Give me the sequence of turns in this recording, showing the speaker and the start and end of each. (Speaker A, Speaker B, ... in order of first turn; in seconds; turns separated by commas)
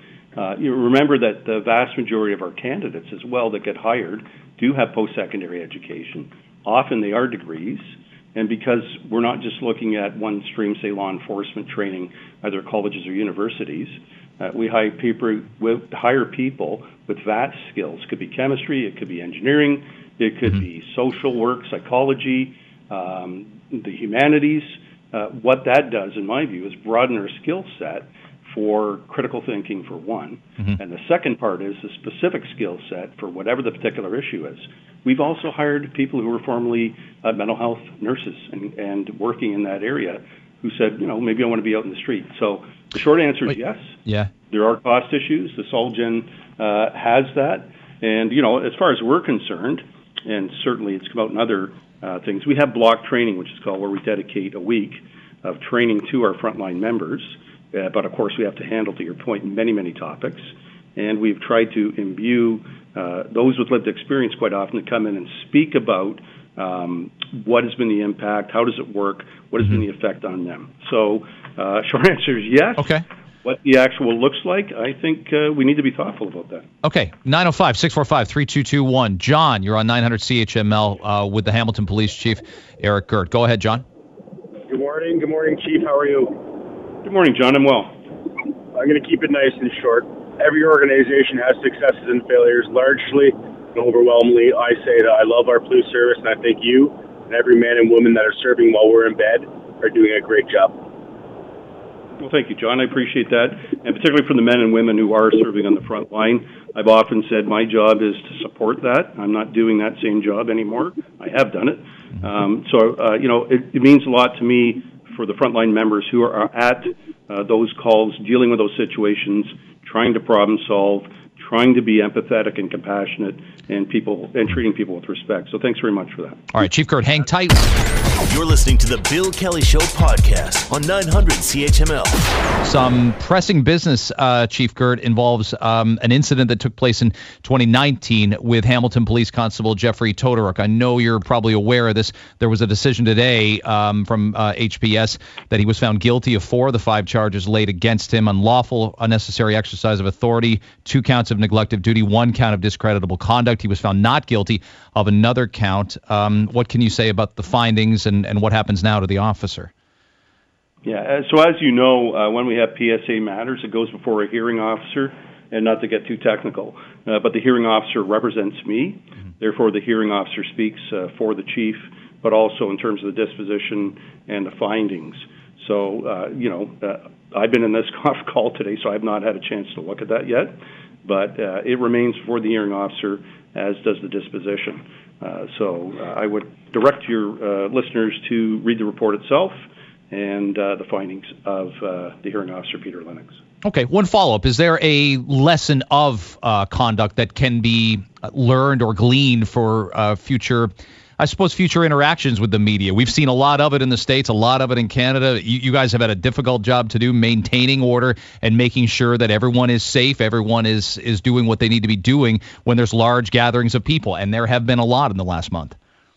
Speaker A: 0.3-76.7, Speaker B: 72.8-73.0, Speaker B: 76.8-83.8, Speaker C: 84.7-86.4, Speaker A: 87.0-88.0, Speaker C: 88.7-100.8, Speaker A: 102.2-126.5, Speaker B: 126.5-127.6, Speaker D: 128.3-132.2, Speaker B: 132.6-159.7, Speaker A: 160.8-193.4, Speaker B: 193.6-215.8